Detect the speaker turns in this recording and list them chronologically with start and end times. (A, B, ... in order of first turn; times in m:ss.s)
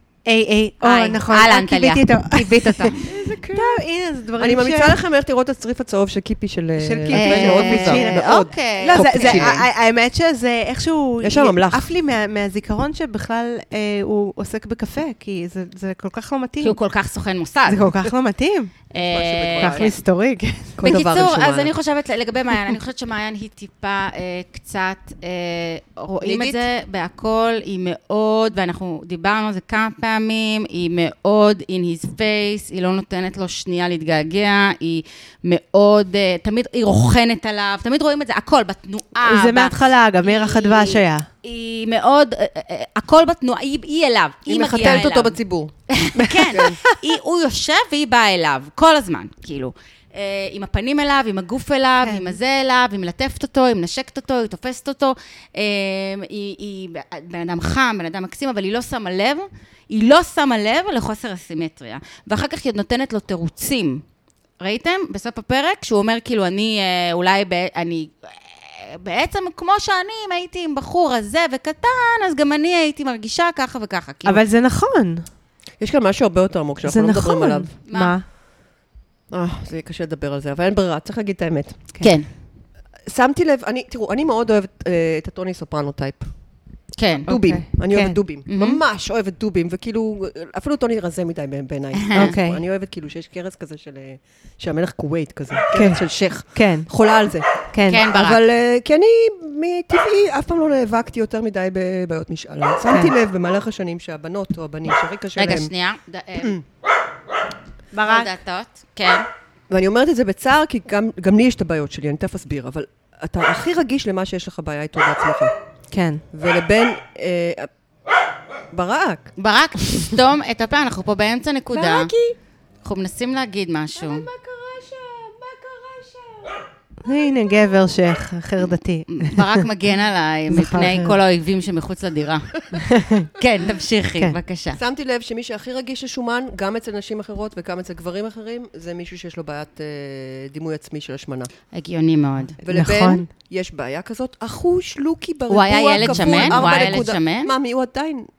0:00.2-0:03.0 A
0:00.8-0:03.0 B
0:03.0-0:03.8 C
0:03.5-0:05.0 A
0:04.4-0:09.6 C
0:06.8-0:16.8 A
0:07.1-0:09.6 B
0:11.2-0:11.9 C
0:16.6-0:17.9 B
0:17.7-0:18.7 A
0:18.9-0:20.0 B
0:19.0-0:19.9 C
0:19.6-0:20.8 A
0:20.8-0:21.7 C
0:20.8-0:45.4 B
0:26.2-0:26.6 C
0:39.2-0:41.3 A
0:44.5-0:45.7 C
0:45.9-1:04.0 B
0:46.2-0:47.0 A
0:46.5-0:46.8 C
0:52.0-0:52.4 A
1:04.6-1:14.4 B
1:14.2-1:15.2 A
1:15.8-1:17.7 C
1:16.8-1:18.2 A
1:17.9-1:18.1 B
1:19.3-1:21.8 C
1:22.0-1:22.2 B
1:23.1-1:26.3 C
1:27.0-1:27.3 B
1:27.2-1:45.7 C
1:27.3-1:28.2 A
1:28.5-1:28.8 B
1:32.0-1:32.3 B
1:32.1-1:32.6 A
1:35.7-1:36.9 A
1:37.7-1:38.0 A
1:37.9-1:38.4 B
1:45.4-1:46.6 B
1:46.4-1:46.6 C
1:47.9-1:48.3 A
1:48.0-1:49.3 B
1:49.7-1:55.5 C
1:55.9-1:56.2 A
1:56.3-1:57.7 C
1:58.7-1:59.3 C
1:59.4-2:02.1 B
2:01.7-2:02.4 C
2:02.8-2:04.3 B
2:04.0-2:07.5 C
2:07.0-2:09.6 A
2:09.1-2:12.5 B
2:10.5-2:11.2 A
2:12.8-2:13.3 A
2:13.3-2:14.8 B
2:14.8-2:21.5 C
2:21.7-2:22.6 B
2:22.6-2:28.3 C
2:22.6-2:23.3 A
2:25.5-2:27.5 B
2:26.0-2:27.0 A